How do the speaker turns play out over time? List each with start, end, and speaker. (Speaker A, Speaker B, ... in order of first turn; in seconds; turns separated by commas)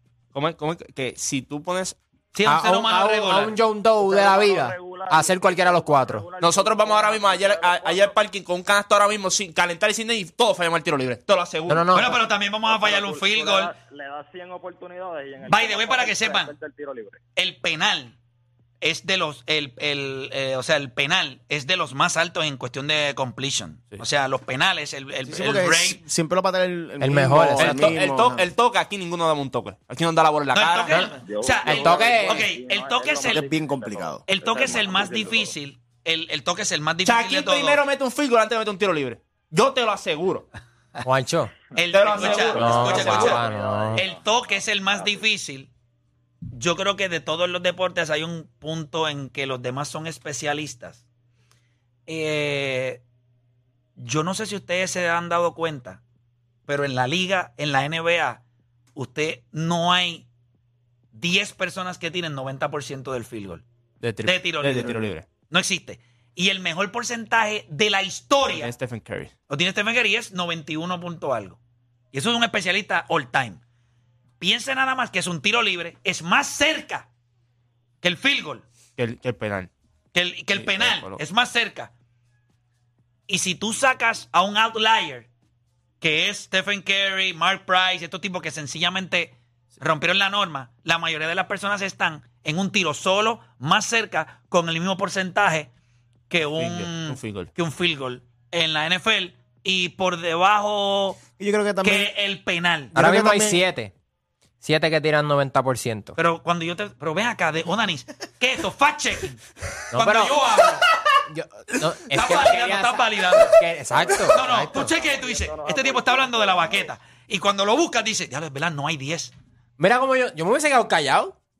Speaker A: 0.3-2.0, Speaker B: 2.3-3.6, Speaker C: 2.5-6.3, Speaker D: 4.0-8.1, Speaker A: 6.4-11.9, Speaker C: 11.7-12.1, Speaker B: 11.9-13.7, Speaker D: 12.1-17.2, Speaker B: 15.4-16.5, Speaker B: 17.4-18.1, Speaker B: 18.8-26.0, Speaker E: 25.2-28.4, Speaker C: 27.0-28.0, Speaker A: 27.6-31.0, Speaker B: 30.5-33.5, Speaker D: 31.2-35.5, Speaker C: 31.6-32.4, Speaker E: 33.2-34.2, Speaker B: 34.3-37.8, Speaker A: 37.0-40.5, Speaker C: 41.0-41.5, Speaker B: 41.7-43.4, Speaker A: 41.9-43.4, Speaker D: 42.0-45.2, Speaker C: 42.5-44.0, Speaker B: 44.0-45.7, Speaker B: 46.5-51.0, Speaker B: 52.1-53.0, Speaker B: 54.0-56.0, Speaker B: 56.7-58.4, Speaker B: 58.9-60.2, Speaker B: 61.1-63.6, Speaker A: 64.0-65.3, Speaker B: 64.2-68.7, Speaker A: 68.5-69.3, Speaker B: 69.5-71.6, Speaker B: 72.1-73.6, Speaker B: 74.4-77.1, Speaker B: 78.0-78.6, Speaker A: 79.0-79.7, Speaker B: 80.1-81.9, Speaker A: 80.5-81.2, Speaker B: 83.3-85.3, Speaker B: 86.0-95.7, Speaker B: 96.3-101.2, Speaker A: 96.6-97.5, Speaker E: 101.4-102.1, Speaker B: 101.8-102.9, Speaker E: 102.9-103.6, Speaker C: 103.0-103.9, Speaker C: 104.6-106.1, Speaker B: 106.2-109.4, Speaker C: 109.9-110.4, Speaker B: 109.9-110.9, Speaker C: 111.3-114.9, Speaker B: 112.1-113.5, Speaker D: 113.9-116.9, Speaker B: 114.3-119.3, Speaker C: 119.8-121.4